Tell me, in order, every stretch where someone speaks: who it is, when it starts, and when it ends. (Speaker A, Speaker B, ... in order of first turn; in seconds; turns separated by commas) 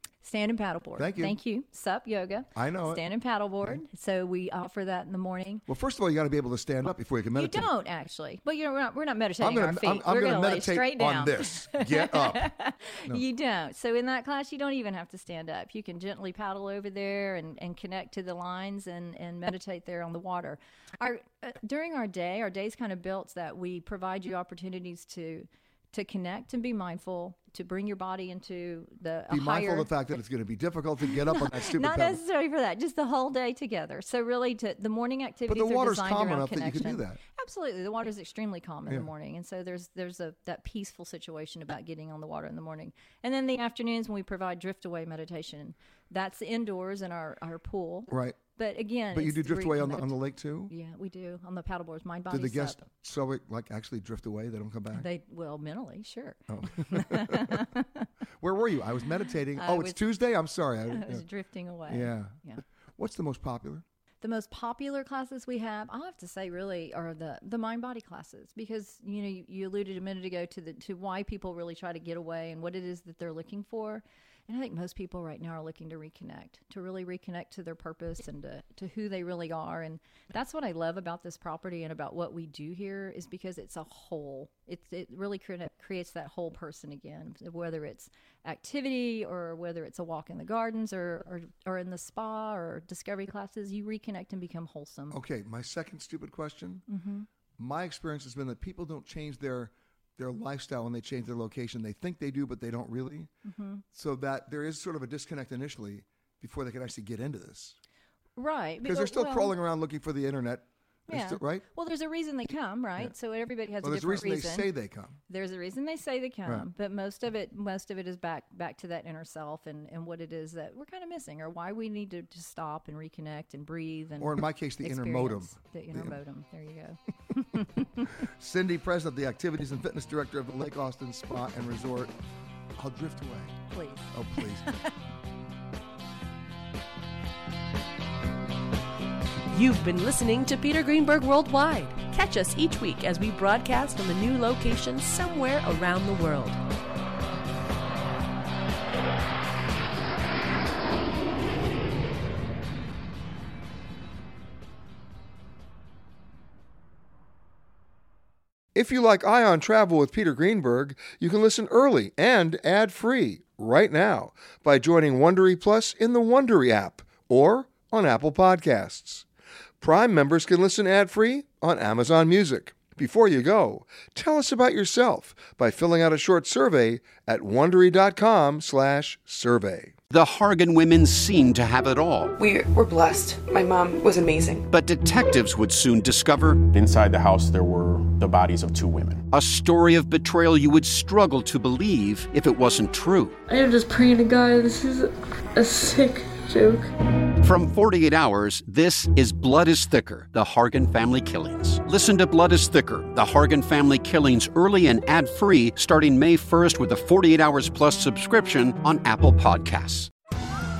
Speaker A: 0.2-5.7, Speaker B: 1.0-1.4, Speaker B: 2.5-3.0, Speaker B: 5.7-7.7, Speaker A: 7.3-29.9, Speaker B: 9.4-12.5, Speaker B: 29.3-32.2, Speaker A: 31.0-52.9, Speaker B: 35.5-37.2, Speaker B: 48.1-48.4, Speaker B: 49.1-50.7, Speaker B: 52.3-55.1, Speaker A: 54.9-58.0, Speaker B: 56.5-57.7, Speaker B: 58.4-61.2, Speaker A: 59.5-60.1, Speaker A: 60.9-62.6, Speaker B: 61.9-62.4, Speaker B: 63.0-63.8, Speaker A: 64.2-95.2, Speaker B: 95.1-96.9, Speaker A: 96.9-97.3, Speaker B: 97.6-103.3, Speaker A: 103.5-103.8, Speaker B: 103.9-107.8, Speaker A: 108.4-109.6, Speaker B: 108.8-111.7, Speaker A: 111.1-114.7, Speaker B: 113.8-115.2, Speaker A: 115.3-128.1, Speaker B: 124.2-126.2, Speaker B: 128.2-132.1, Speaker B: 132.8-133.6, Speaker A: 133.7-134.9, Speaker B: 134.1-134.7, Speaker C: 139.5-146.6, Speaker B: 158.8-169.3, Speaker B: 169.8-179.9, Speaker D: 180.1-182.3, Speaker E: 182.4-184.7, Speaker D: 184.7-186.6, Speaker F: 186.7-189.2, Speaker D: 189.3-193.4, Speaker G: 193.5-196.9, Speaker D: 197.4-210.1